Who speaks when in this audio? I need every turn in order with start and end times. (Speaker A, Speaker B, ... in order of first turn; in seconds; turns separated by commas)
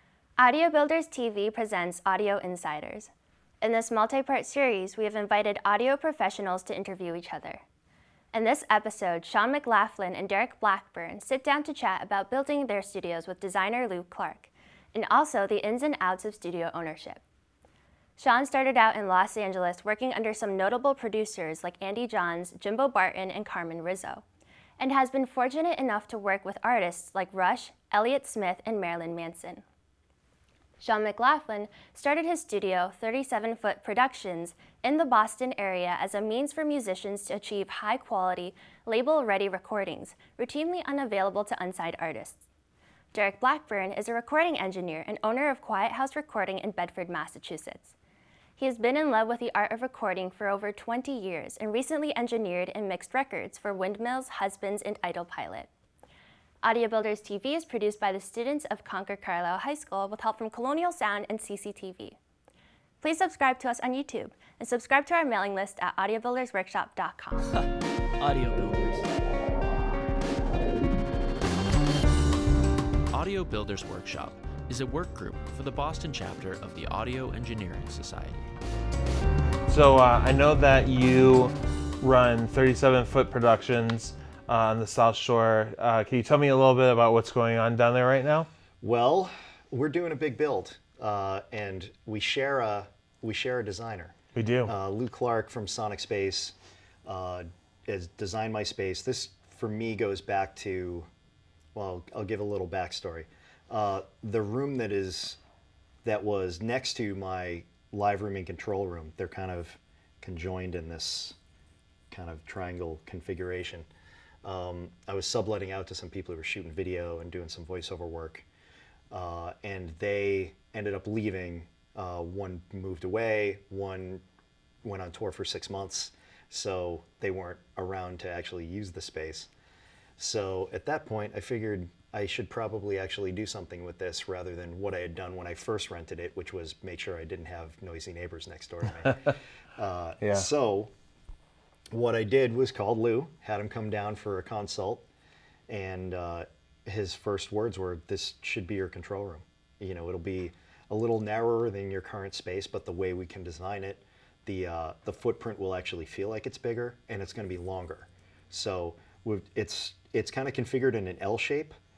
Speaker A: 0.4-7.6, Speaker A: 8.3-17.2, Speaker A: 18.2-24.2, Speaker A: 24.8-29.6, Speaker A: 30.8-42.4, Speaker A: 43.1-47.9, Speaker A: 48.6-55.7, Speaker A: 56.6-62.2, Speaker A: 63.0-67.5, Speaker B: 68.2-69.1, Speaker B: 73.1-78.4, Speaker C: 79.7-88.5, Speaker D: 88.8-94.1, Speaker C: 94.3-94.7, Speaker D: 94.7-101.1, Speaker D: 101.7-105.4, Speaker D: 106.0-111.4, Speaker D: 112.1-113.8, Speaker D: 114.4-118.4, Speaker D: 119.1-124.2, Speaker D: 124.8-129.5, Speaker D: 130.2-140.9, Speaker C: 139.0-139.3, Speaker C: 140.2-140.5, Speaker D: 141.9-145.0, Speaker D: 145.7-161.7